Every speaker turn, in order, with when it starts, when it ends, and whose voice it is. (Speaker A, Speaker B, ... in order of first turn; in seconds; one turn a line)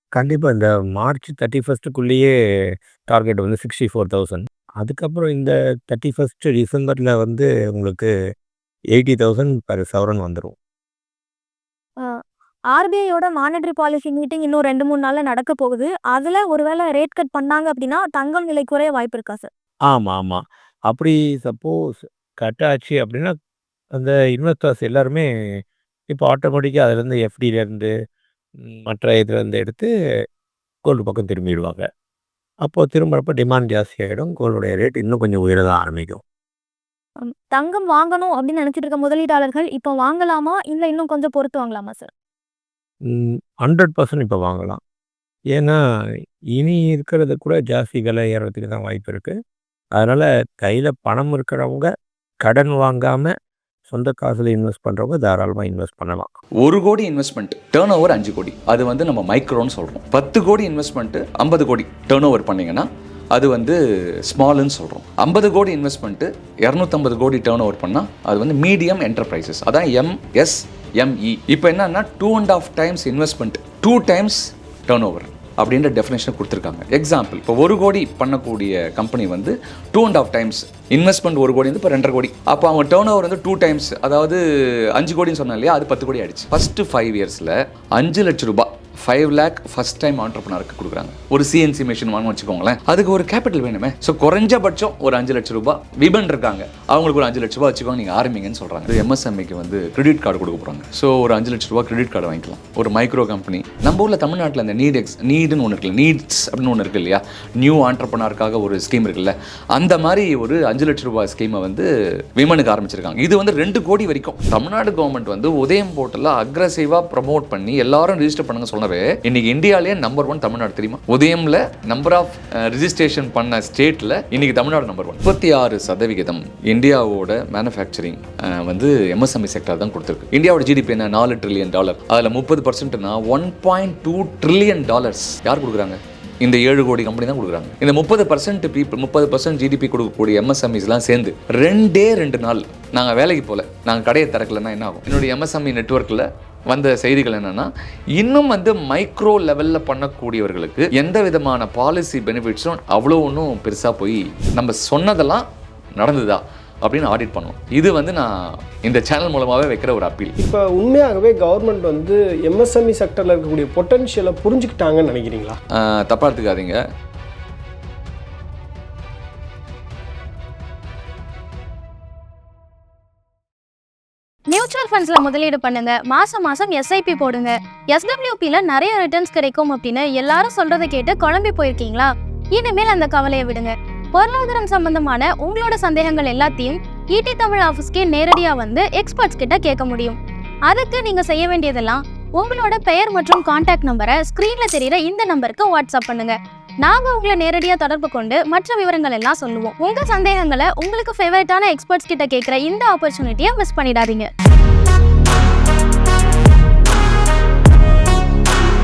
Speaker A: 0.2-2.3
Speaker A: 3.1-8.1
Speaker A: 8.9-10.6
Speaker B: 12.7-19.5
Speaker A: 19.9-23.3
Speaker A: 24.0-25.3
Speaker A: 26.1-27.9
Speaker A: 28.6-29.9
Speaker A: 30.9-31.8
Speaker A: 32.6-36.2
Speaker B: 37.2-42.1
Speaker A: 43.1-44.8
Speaker A: 45.5-45.8
Speaker A: 46.5-49.4
Speaker A: 50.0-51.9
Speaker A: 52.4-53.3
Speaker A: 53.9-56.3
Speaker C: 56.6-63.8
Speaker C: 64.3-84.4
Speaker C: 85.0-155.4
Speaker C: 156.0-158.3
Speaker C: 158.9-160.3
Speaker D: 160.4-165.6
Speaker C: 165.8-166.8
Speaker E: 174.5-190.2
Speaker E: 190.7-204.3